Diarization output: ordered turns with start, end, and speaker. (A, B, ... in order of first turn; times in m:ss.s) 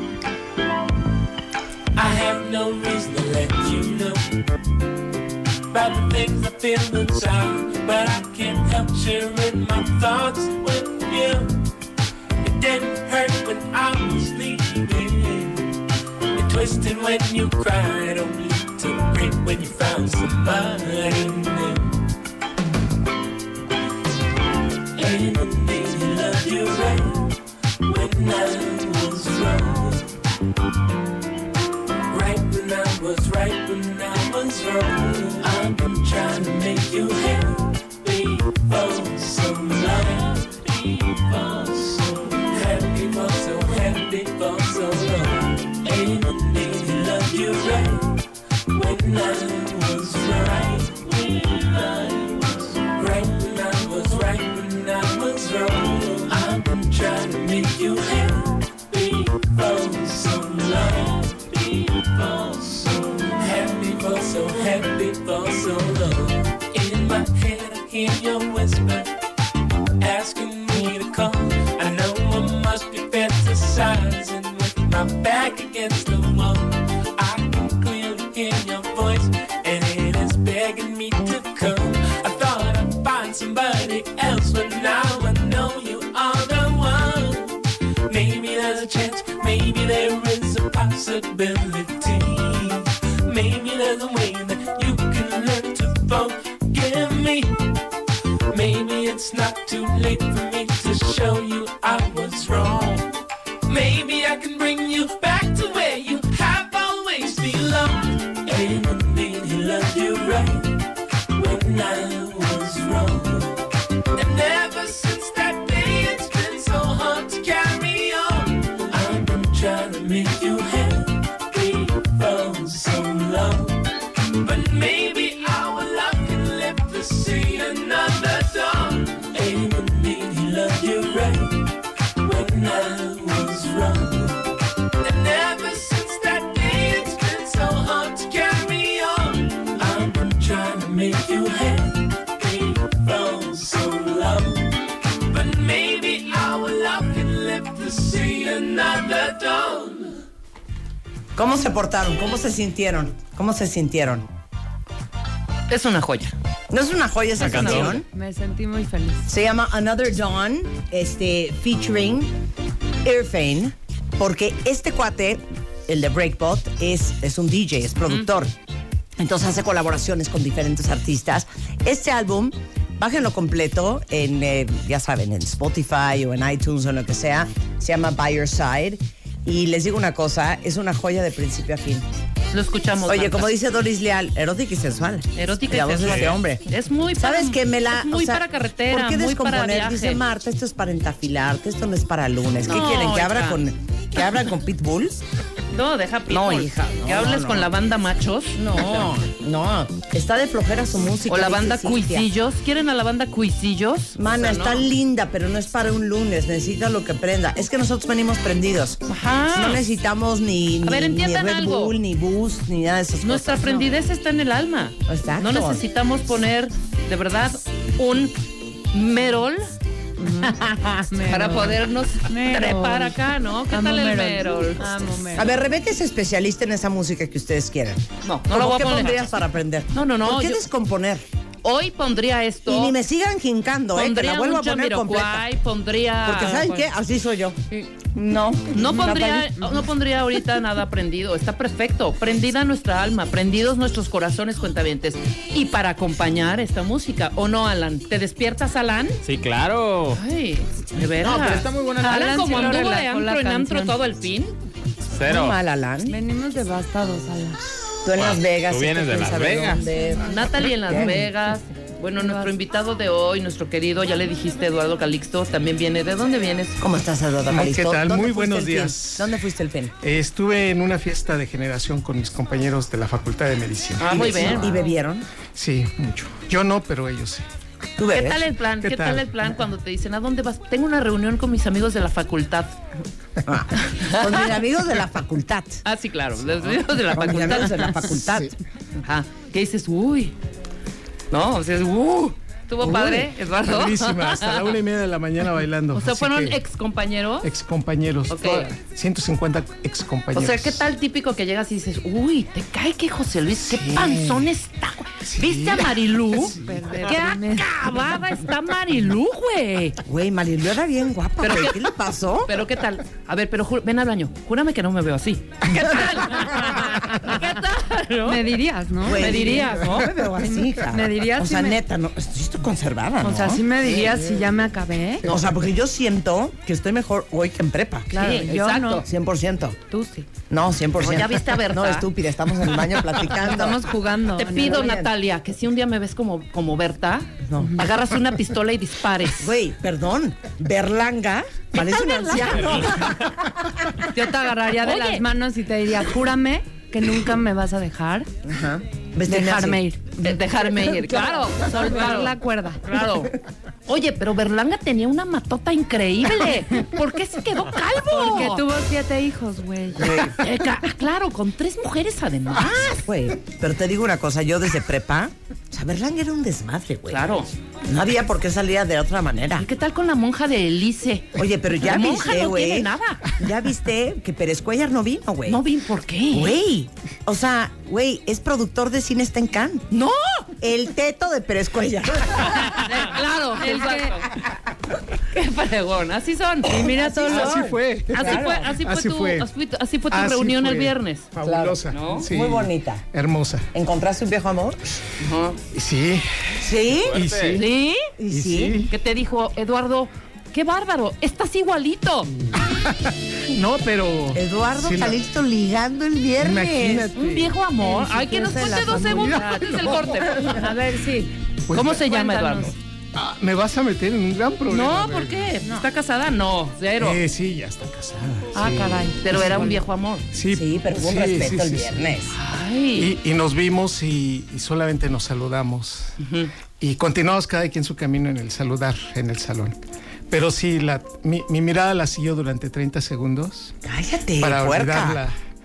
0:01.9-0:04.4 A
0:05.7-0:11.6 A
0:12.4-0:15.8 A
0:16.3-0:22.0 A
0:24.9-0:30.2 A
0:32.1-0:48.2 A
0:48.7-1:09.1 A
1:10.0-1:37.6 A
1:38.5-1:43.1 A
1:43.7-2:30.2 A
2:31.4-2:34.3 B
2:35.7-2:36.3 C
2:36.7-2:38.1 B
2:37.4-2:37.9 D
2:37.4-2:37.9 C
2:38.0-2:39.2 E
2:39.3-2:42.3 B
2:43.0-2:48.5 B
2:49.2-3:02.1 B
3:02.5-3:03.5 C
3:03.0-3:06.6 B
3:05.3-3:10.2 C
3:06.0-3:06.3 D
3:07.2-3:15.2 B
3:12.7-3:13.6 C
3:15.7-3:19.1 C
3:16.3-3:17.7 B
3:18.6-3:22.3 B
3:21.3-3:24.9 C
3:24.2-3:33.9 B
3:29.1-3:29.8 C
3:30.8-3:32.0 C
3:33.2-3:38.4 C
3:35.1-3:35.8 B
3:38.9-3:40.5 C
3:40.6-3:43.2 E
3:41.2-3:45.0 C
3:43.7-3:45.5 E
3:45.3-3:51.2 B
3:48.2-3:49.2 C
3:49.9-3:50.6 C
3:51.6-3:53.0 C
3:52.6-3:55.4 B
3:53.9-3:56.9 C
3:56.2-3:59.5 B
3:58.7-4:09.2 C
4:09.2-4:10.2 D
4:10.1-4:14.6 C
4:11.2-4:12.7 D
4:12.0-4:14.0 E
4:15.2-4:15.6 D
4:15.3-4:16.2 B
4:16.0-4:17.6 E
4:18.0-4:21.3 B
4:18.1-4:19.8 D
4:20.2-4:26.8 C
4:22.2-4:22.5 E
4:26.8-4:29.9 B
4:27.5-4:29.4 F
4:30.0-4:34.8 F
4:34.0-4:34.8 C
4:34.1-4:35.3 B
4:35.6-4:37.4 F
4:38.0-4:38.4 B
4:38.1-4:42.8 C
4:38.8-4:39.3 F
4:43.4-4:45.8 B
4:43.9-4:44.5 C
4:45.8-4:48.1 C
4:47.1-4:48.5 B
4:48.2-4:48.5 F
4:49.0-4:50.3 C
4:51.3-4:54.8 C
4:52.8-4:56.6 F
4:55.9-4:57.5 C
4:57.4-5:00.8 F
4:58.3-4:58.7 C
5:00.3-5:10.0 C
5:03.8-5:04.4 F
5:05.2-5:06.8 F
5:06.6-5:07.8 E
5:10.0-5:12.6 B
5:11.4-5:11.8 C
5:12.4-5:18.5 C
5:18.2-5:19.7 E
5:19.0-5:24.1 B
5:19.1-5:20.1 C
5:20.4-5:21.8 E
5:23.2-5:25.3 E
5:25.2-5:29.8 B
5:28.1-5:29.0 C
5:28.2-5:29.0 E
5:29.9-5:30.3 E
5:30.5-5:33.8 B
5:31.0-5:32.1 C
5:33.5-5:34.8 E
5:34.2-5:39.6 C
5:34.7-5:35.1 B
5:37.4-5:37.7 B
5:39.4-5:43.7 B
5:41.8-5:42.9 C
5:44.2-5:45.2 C
5:44.2-5:48.3 E
5:48.4-5:51.9 B
5:49.3-5:50.0 E
5:50.2-5:53.3 C
5:51.2-5:52.8 E
5:53.8-5:58.6 C
5:58.1-6:00.2 E
6:00.0-6:00.3 B
6:00.2-6:03.0 C
6:02.9-6:07.3 B
6:07.1-6:07.5 C
6:07.8-6:09.7 B
6:09.6-6:11.3 C
6:11.3-6:15.6 B
6:11.8-6:13.3 C
6:15.4-6:16.6 C
6:16.3-6:19.9 B
6:19.9-6:20.5 C
6:20.6-6:22.8 B
6:22.6-6:24.3 C
6:23.6-6:24.2 E
6:25.3-6:27.6 C
6:26.7-6:29.5 F
6:26.8-6:27.4 E
6:26.8-6:28.7 B
6:28.1-6:31.3 C
6:30.1-6:33.7 F
6:31.4-6:33.0 B
6:31.9-6:32.3 C
6:33.7-6:34.8 B
6:35.2-6:35.6 C
6:35.7-6:36.6 F
6:36.6-6:37.2 B
6:36.8-6:37.6 D
6:37.1-6:37.7 F
6:37.5-6:38.1 C
6:38.2-6:38.8 B
6:38.3-6:38.9 F
6:38.9-6:42.3 C
6:42.5-6:45.3 F
6:44.3-6:47.1 B
6:46.4-6:47.7 F
6:47.2-6:50.8 C
6:47.8-6:49.6 E
6:48.7-6:50.5 F
6:50.5-6:51.3 E
6:51.7-6:52.0 F
6:51.7-6:52.8 C
6:52.0-6:52.7 E
6:53.1-6:55.6 F
6:54.7-6:57.2 C
6:57.0-6:59.8 F
6:58.6-6:59.8 E
6:59.2-7:00.2 C
7:00.3-7:02.1 F
7:00.5-7:02.3 B
7:02.3-7:03.1 C
7:03.0-7:06.2 F
7:06.2-7:06.5 C
7:06.8-7:09.8 F
7:10.3-7:13.7 F
7:13.8-7:15.2 B
7:14.4-7:15.3 F